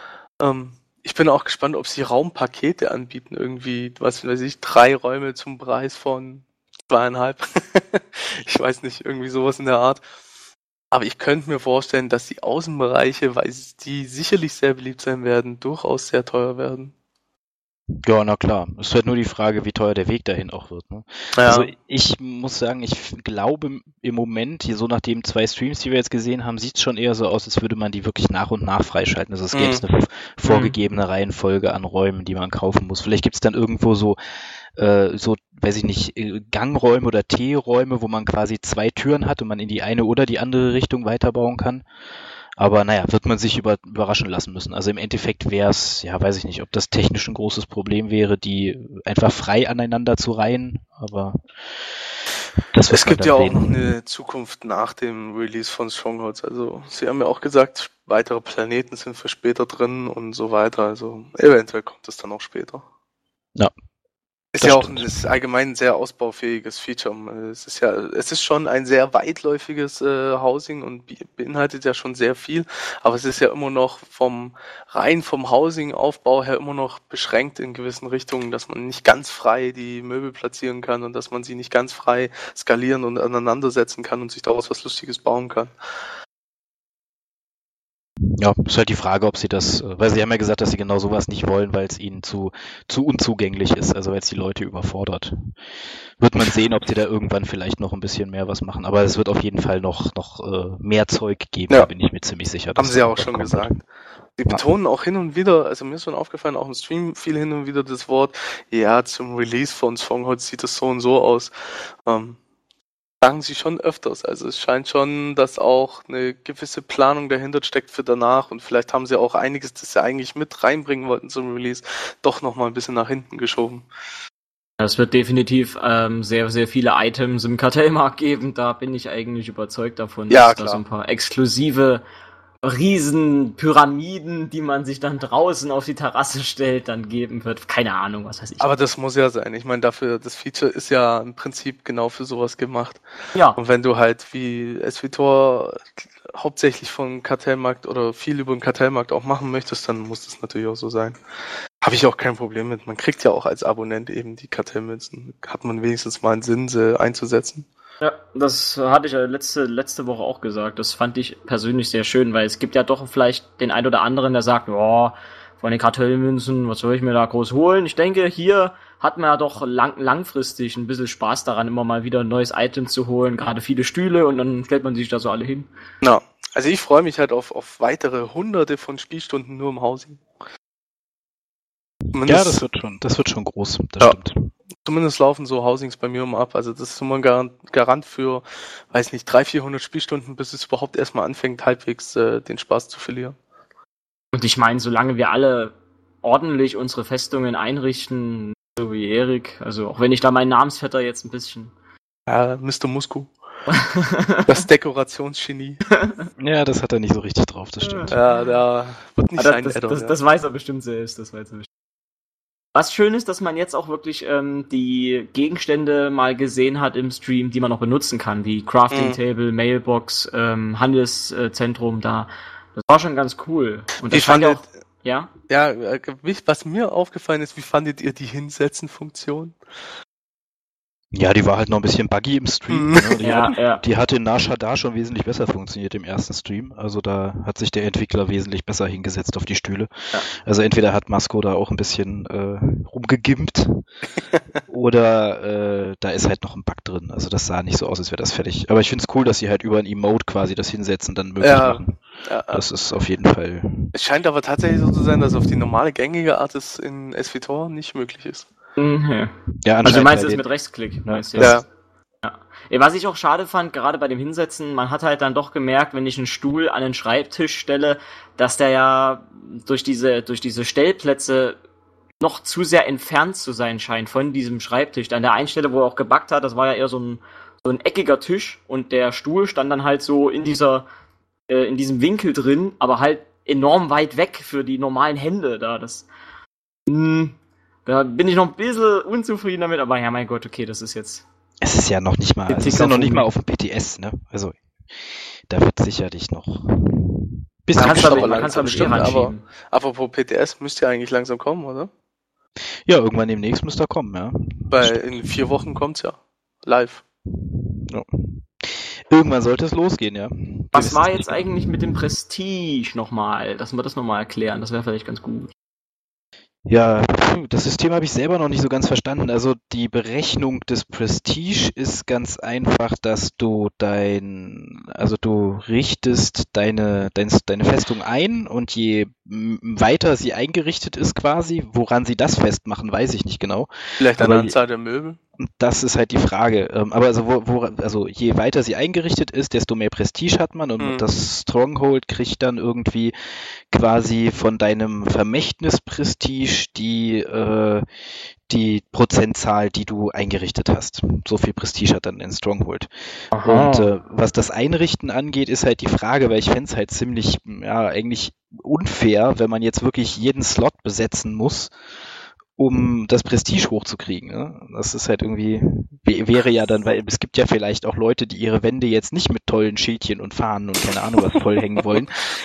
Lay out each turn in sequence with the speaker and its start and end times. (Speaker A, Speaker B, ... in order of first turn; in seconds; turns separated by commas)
Speaker A: 0.4-10.0, Speaker A: 10.9-16.9, Speaker B: 18.1-34.2, Speaker A: 21.4-21.7, Speaker A: 29.5-29.8, Speaker B: 34.8-41.9, Speaker B: 42.6-51.4, Speaker B: 52.7-53.8, Speaker A: 52.9-62.9, Speaker A: 64.5-85.7, Speaker B: 64.6-65.1, Speaker B: 88.4-95.5, Speaker B: 96.2-103.8, Speaker A: 102.8-103.8, Speaker A: 104.4-111.5, Speaker A: 112.0-112.4, Speaker A: 113.2-123.9, Speaker C: 124.8-132.0, Speaker A: 130.3-130.8, Speaker C: 132.6-138.7, Speaker A: 138.6-143.0, Speaker A: 143.6-151.2, Speaker A: 151.8-157.7, Speaker C: 158.0-175.7, Speaker A: 176.0-180.2, Speaker A: 182.1-182.6, Speaker B: 182.2-184.5, Speaker A: 184.8-193.4, Speaker C: 194.3-201.7, Speaker A: 202.3-203.3, Speaker C: 203.7-204.5, Speaker A: 204.5-205.8, Speaker C: 206.0-206.2, Speaker B: 206.4-208.2, Speaker C: 207.8-208.3, Speaker A: 208.1-210.2, Speaker C: 209.4-211.7, Speaker C: 212.8-225.3, Speaker A: 218.9-219.2, Speaker A: 224.1-224.6, Speaker A: 225.5-229.6, Speaker B: 231.1-243.8, Speaker A: 232.7-233.5, Speaker C: 233.2-233.8, Speaker B: 244.7-252.0, Speaker A: 251.4-252.6, Speaker B: 252.5-253.9, Speaker A: 253.9-258.5, Speaker C: 258.8-261.6, Speaker B: 259.6-260.5, Speaker B: 261.0-261.6, Speaker A: 261.4-261.6, Speaker C: 262.2-271.6, Speaker C: 272.2-280.9, Speaker C: 281.5-286.1, Speaker C: 286.9-291.2, Speaker B: 291.6-294.6, Speaker C: 292.5-293.3, Speaker B: 295.5-299.1, Speaker C: 297.8-299.4, Speaker A: 297.8-301.9, Speaker B: 302.9-305.3, Speaker A: 304.7-307.0, Speaker B: 307.5-311.7, Speaker C: 310.7-315.5, Speaker B: 316.7-334.6, Speaker A: 334.0-335.2, Speaker B: 335.4-343.2, Speaker A: 340.8-341.1, Speaker B: 343.7-347.9, Speaker B: 348.5-361.7, Speaker C: 353.3-353.9, Speaker B: 362.6-372.2